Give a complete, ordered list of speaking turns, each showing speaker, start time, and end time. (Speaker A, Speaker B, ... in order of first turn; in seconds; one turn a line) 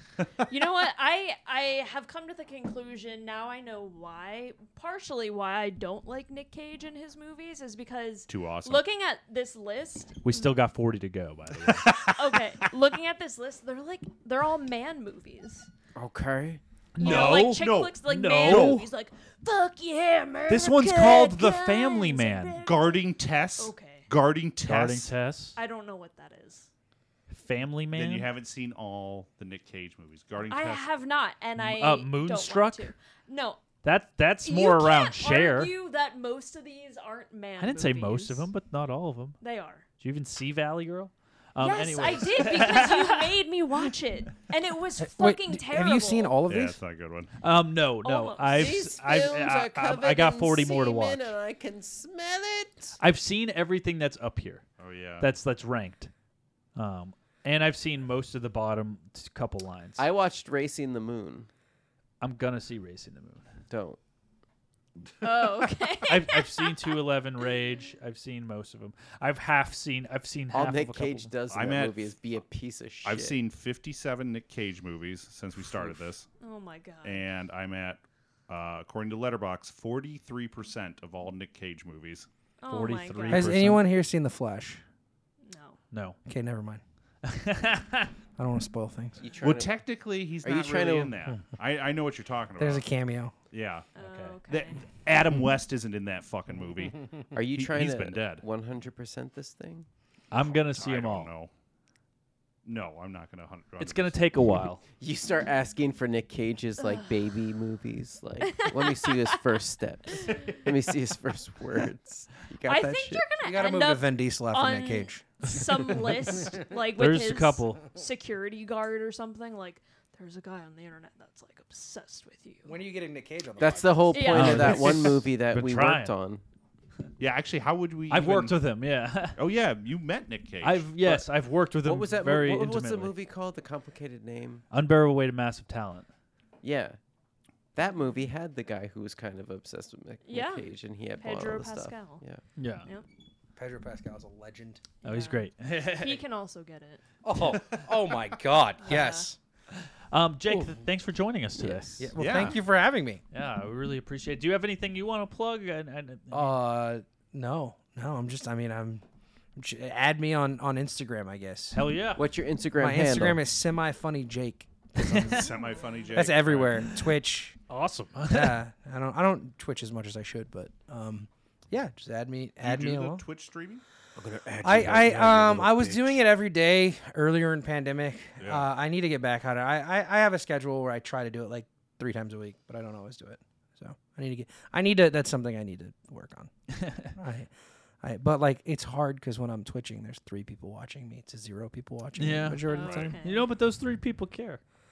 Speaker A: 0.4-10.6
Speaker B: 8.3-8.8
Speaker C: 10.2-11.9
Speaker B: 11.6-12.1
Speaker A: 12.0-15.7
Speaker D: 15.9-16.6
Speaker C: 16.9-18.9
Speaker A: 17.0-24.1
Speaker B: 17.0-18.8
Speaker C: 20.5-22.6
Speaker B: 22.6-25.1
Speaker C: 24.6-25.6
Speaker A: 25.6-26.7
Speaker C: 27.3-28.3
Speaker B: 27.9-30.8
Speaker A: 30.4-33.6
Speaker C: 31.6-32.9
Speaker C: 33.8-35.7
Speaker A: 34.4-38.5
Speaker C: 37.6-39.4
Speaker A: 39.4-39.8
Speaker C: 40.0-43.3
Speaker A: 41.6-46.4
Speaker E: 45.0-46.8
Speaker B: 46.5-47.3
Speaker C: 47.4-51.3
Speaker A: 48.0-48.8
Speaker D: 48.5-53.0
Speaker C: 53.0-54.6
Speaker B: 54.8-55.3
Speaker C: 55.2-56.1
Speaker C: 56.7-60.0
Speaker D: 60.0-61.5
Speaker C: 62.2-63.4
Speaker D: 63.7-64.0
Speaker A: 65.2-67.0
Speaker C: 66.0-71.3
Speaker D: 70.5-73.4
Speaker B: 71.5-72.0
Speaker B: 73.0-76.3
Speaker A: 76.4-77.2
Speaker B: 77.0-82.3
Speaker A: 82.6-83.5
Speaker C: 82.7-83.8
Speaker E: 83.3-84.8
Speaker A: 85.4-85.8
Speaker E: 86.2-86.8
Speaker C: 87.2-88.1
Speaker E: 88.4-89.2
Speaker D: 89.2-89.8
Speaker B: 89.4-92.8
Speaker D: 90.4-91.2
Speaker E: 92.6-93.3
Speaker B: 93.5-93.9
Speaker A: 94.0-94.8
Speaker C: 94.0-94.4
Speaker B: 94.5-98.4
Speaker D: 97.3-99.9
Speaker C: 100.3-101.3
Speaker B: 100.4-101.5
Speaker B: 102.6-104.2
Speaker C: 103.8-104.8
Speaker D: 105.0-113.2
Speaker A: 106.8-107.1
Speaker A: 108.5-109.4
Speaker A: 110.2-110.6
Speaker A: 112.6-122.7
Speaker E: 113.4-115.8
Speaker C: 117.0-117.8
Speaker E: 122.6-124.2
Speaker D: 123.6-126.4
Speaker A: 124.1-124.8
Speaker C: 124.2-126.1
Speaker B: 127.2-128.6
Speaker C: 128.1-129.4
Speaker B: 129.4-130.9
Speaker C: 130.6-133.1
Speaker D: 131.0-134.6
Speaker C: 134.7-136.1
Speaker D: 136.6-137.0
Speaker D: 137.7-142.4
Speaker A: 140.2-142.2
Speaker C: 142.6-142.9
Speaker E: 143.6-144.8
Speaker A: 145.0-147.0
Speaker C: 145.0-146.2
Speaker E: 147.2-149.4
Speaker A: 148.8-149.2
Speaker C: 150.1-152.1
Speaker E: 152.0-153.2
Speaker B: 152.2-152.6
Speaker C: 153.3-156.6
Speaker E: 156.3-159.0
Speaker E: 159.6-161.8
Speaker C: 161.7-162.2
Speaker D: 162.1-163.4
Speaker E: 162.7-165.5
Speaker C: 165.0-165.5
Speaker B: 165.2-166.9
Speaker A: 165.5-165.9
Speaker E: 166.1-167.6
Speaker C: 167.7-168.5
Speaker E: 168.3-173.2
Speaker B: 172.6-173.8
Speaker D: 174.2-176.2
Speaker E: 174.6-186.5
Speaker C: 174.7-175.7
Speaker B: 178.4-178.7
Speaker C: 186.8-187.1
Speaker E: 187.0-193.1
Speaker C: 192.2-194.6
Speaker A: 192.7-193.4
Speaker B: 192.8-193.1